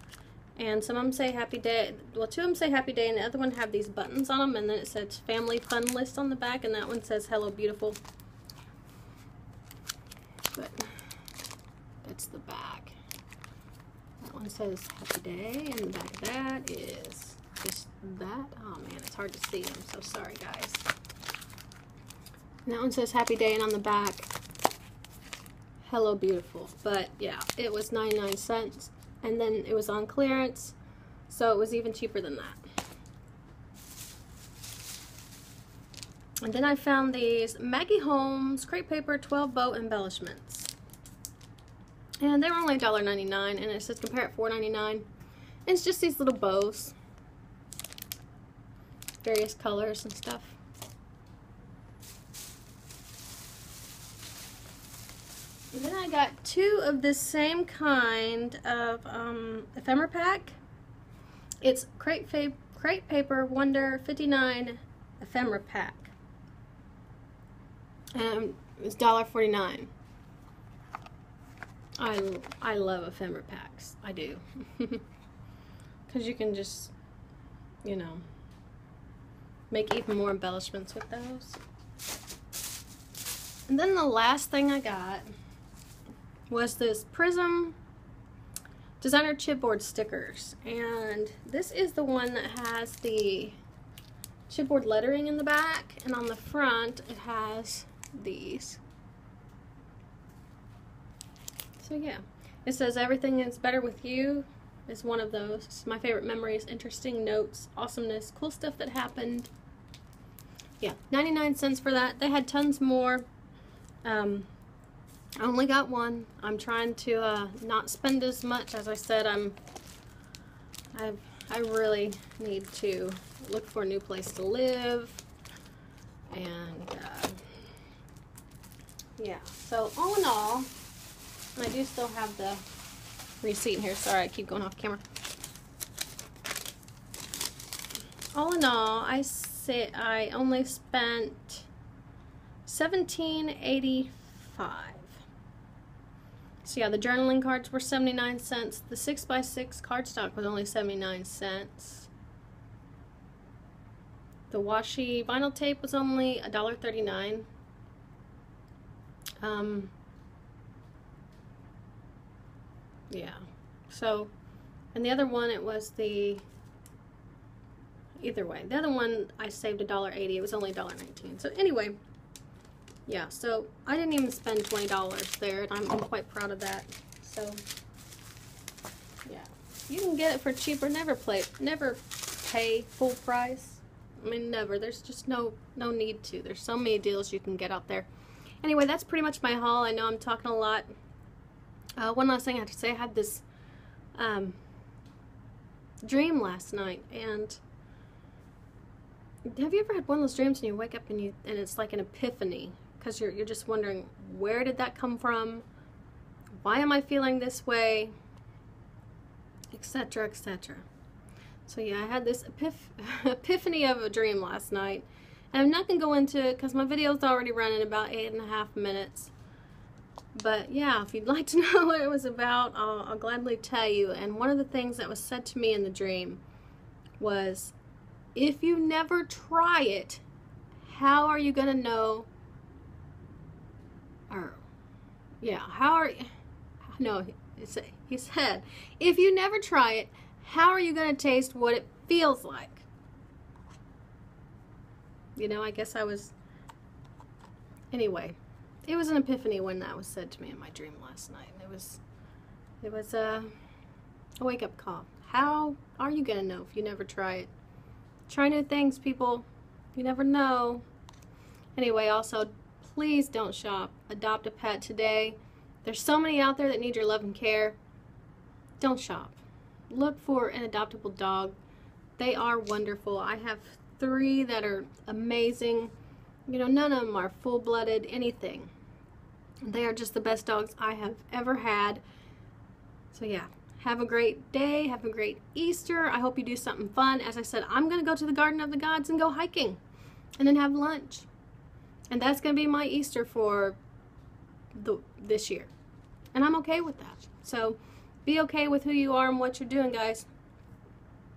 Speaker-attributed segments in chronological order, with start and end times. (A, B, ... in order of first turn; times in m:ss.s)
0:00.6-0:08.0 A
0:10.5-0:10.9 A
0:12.0-0:13.0 A
0:14.2-0:20.8 A
0:22.6-0:24.3 A
0:25.8-0:30.8 A
0:31.3-0:32.6 A
0:36.4-0:40.7 A
0:42.2-0:45.1 A
0:45.6-0:47.0 A
0:49.2-0:50.6 A
0:55.7-1:00.6 A
1:01.6-1:06.1 A
1:08.1-1:09.9 A
1:12.0-1:15.0 A
1:16.1-1:16.9 A
1:17.8-1:18.2 A
1:19.7-1:21.6 A
1:23.7-1:25.3 A
1:26.5-1:27.8 A
1:29.0-1:33.6 A
1:34.5-1:38.8 A
1:41.8-1:49.5 A
1:50.8-1:53.2 A
1:54.0-1:54.5 A
1:55.4-1:59.6 A
2:00.9-2:05.2 A
2:06.3-2:07.4 A
2:09.2-2:10.7 A
2:11.6-2:12.6 A
2:13.4-2:15.0 A
2:18.3-2:21.7 A
2:22.6-2:25.2 A
2:26.6-2:32.1 A
2:34.5-2:37.4 A
2:39.4-2:39.9 A
2:43.1-2:44.3 A
2:44.9-2:46.4 A
2:48.2-2:52.0 A
2:53.1-2:57.6 A
2:59.2-3:08.1 A
3:08.6-3:10.9 A
3:12.0-3:13.4 A
3:14.2-3:14.6 A
3:16.0-3:17.6 A
3:19.4-3:25.6 A
3:26.6-3:28.1 A
3:29.7-3:30.8 A
3:31.6-3:39.3 A
3:40.3-3:46.4 A
3:47.2-3:47.7 A
3:48.3-3:50.2 A
3:50.8-3:52.3 A
3:54.3-3:54.6 A
3:55.4-3:56.3 A
3:56.9-4:02.8 A
4:05.4-4:06.3 A
4:07.9-4:12.0 A
4:12.8-4:13.5 A
4:14.4-4:17.5 A
4:18.3-4:20.8 A
4:21.8-4:27.8 A
4:28.8-4:29.4 A
4:29.9-4:31.6 A
4:32.2-4:35.9 A
4:36.5-4:38.7 A
4:39.6-4:42.0 A
4:43.1-4:49.8 A
4:50.4-4:51.3 A
4:52.1-4:53.8 A
4:54.7-4:55.7 A
4:56.3-5:00.3 A